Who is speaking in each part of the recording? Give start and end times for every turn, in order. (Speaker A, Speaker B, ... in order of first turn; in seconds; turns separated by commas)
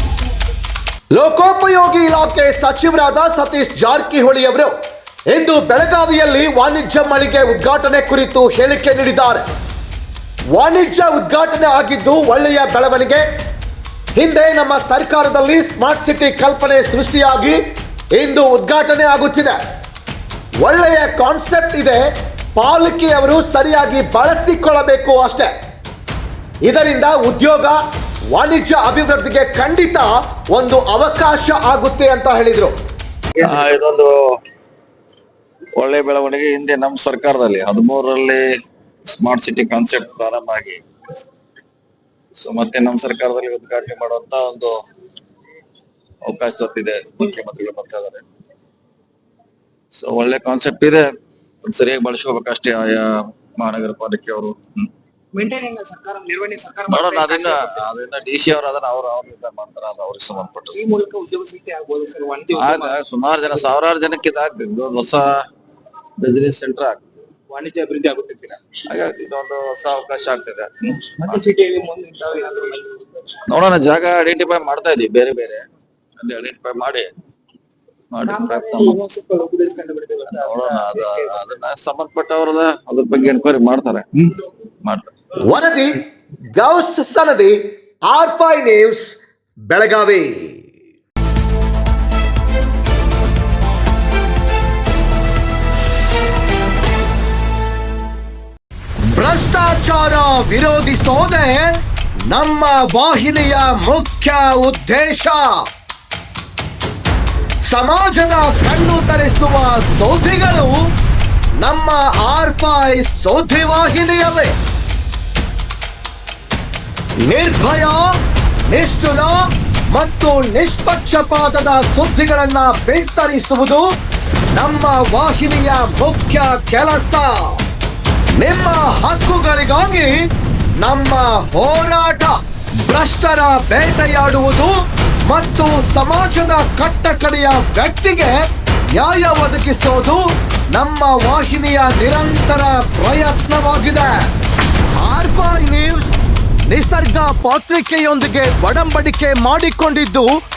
Speaker A: 1.1-4.7, Speaker A: 5.3-9.4, Speaker A: 10.5-13.2, Speaker A: 14.2-17.6, Speaker A: 18.1-19.6, Speaker A: 20.6-25.5, Speaker A: 26.6-27.8, Speaker A: 28.3-32.7, Speaker B: 33.4-34.2, Speaker B: 35.8-38.5, Speaker B: 39.1-40.8, Speaker B: 42.4-44.7, Speaker B: 46.2-48.3, Speaker B: 49.9-51.1, Speaker B: 51.6-54.9, Speaker C: 55.3-57.9, Speaker B: 56.9-60.8, Speaker C: 60.7-63.0, Speaker B: 62.5-65.4, Speaker B: 66.2-67.0, Speaker C: 67.5-68.6, Speaker B: 68.9-71.4, Speaker C: 71.2-73.4, Speaker B: 73.5-75.6, Speaker B: 76.2-77.1, Speaker B: 78.1-79.0, Speaker C: 78.3-81.5, Speaker B: 80.3-85.1, Speaker A: 85.4-87.6, Speaker A: 88.1-90.7, Speaker A: 99.1-101.7, Speaker A: 102.2-105.7, Speaker A: 107.6-110.8, Speaker A: 111.6-114.5, Speaker A: 117.2-118.1, Speaker A: 118.7-119.4, Speaker A: 119.9-123.8, Speaker A: 124.5-127.6, Speaker A: 128.4-132.3, Speaker A: 132.8-134.7, Speaker A: 135.2-144.2, Speaker A: 145.0-146.2, Speaker A: 146.7-150.3